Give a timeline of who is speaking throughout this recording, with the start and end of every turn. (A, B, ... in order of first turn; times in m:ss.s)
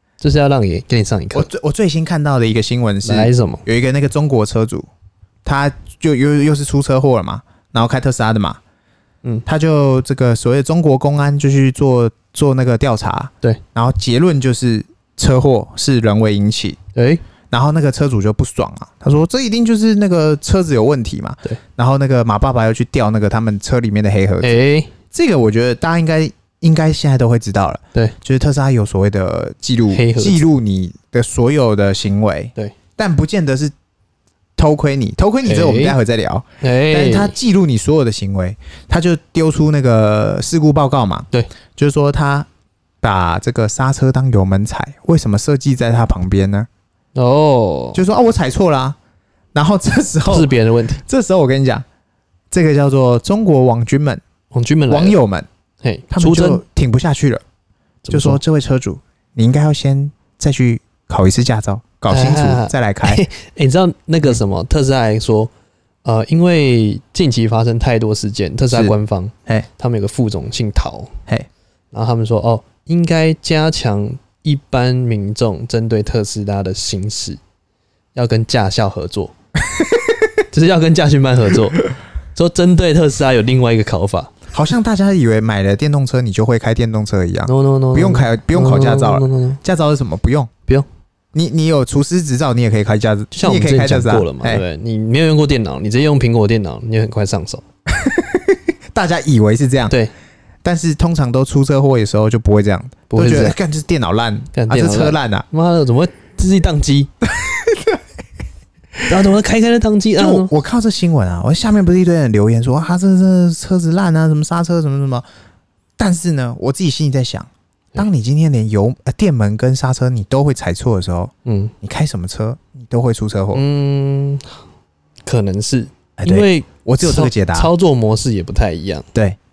0:00.2-0:01.5 A
0:01.3-0:04.9 B
0:03.0-0:03.6 A
0:05.4-0:08.6 B
0:09.4-0:16.8 B
0:16.9-0:17.2 A
0:17.5-0:24.5 B
0:24.4-0:24.9 A
0:25.1-0:33.7 B
0:29.9-0:30.4 A
0:34.6-0:42.5 B
0:35.4-0:36.0 A
0:36.6-0:37.3 A
0:43.0-0:46.7 B
0:47.1-0:48.0 A
0:47.9-0:49.0 B
0:49.5-0:51.8 B
0:50.3-0:51.0 A
0:52.5-0:54.2 B
0:54.5-0:55.2 A
0:54.9-0:55.5 B
0:55.8-0:56.6 A
0:56.1-0:57.4 B
0:58.0-0:58.4 A
0:58.1-1:03.2 B
1:02.1-1:05.5 A
1:06.0-1:11.1 A
1:11.9-1:17.4 A
1:18.1-1:19.3 A
1:19.7-1:20.3 B
1:20.5-1:24.3 A
1:24.5-1:30.5 B
1:27.4-1:29.6 A
1:31.3-1:34.6 B
1:33.3-1:37.6 A
1:37.9-1:40.0 B
1:40.6-1:45.4 B
1:43.1-1:43.6 A
1:44.5-1:47.1 A
1:47.2-1:48.0 B
1:49.1-1:50.5 A
1:50.2-1:55.2 B
1:56.0-2:03.6 B
2:01.4-2:01.7 A
2:03.5-2:04.6 A
2:05.2-2:09.0 A
2:06.2-2:07.7 B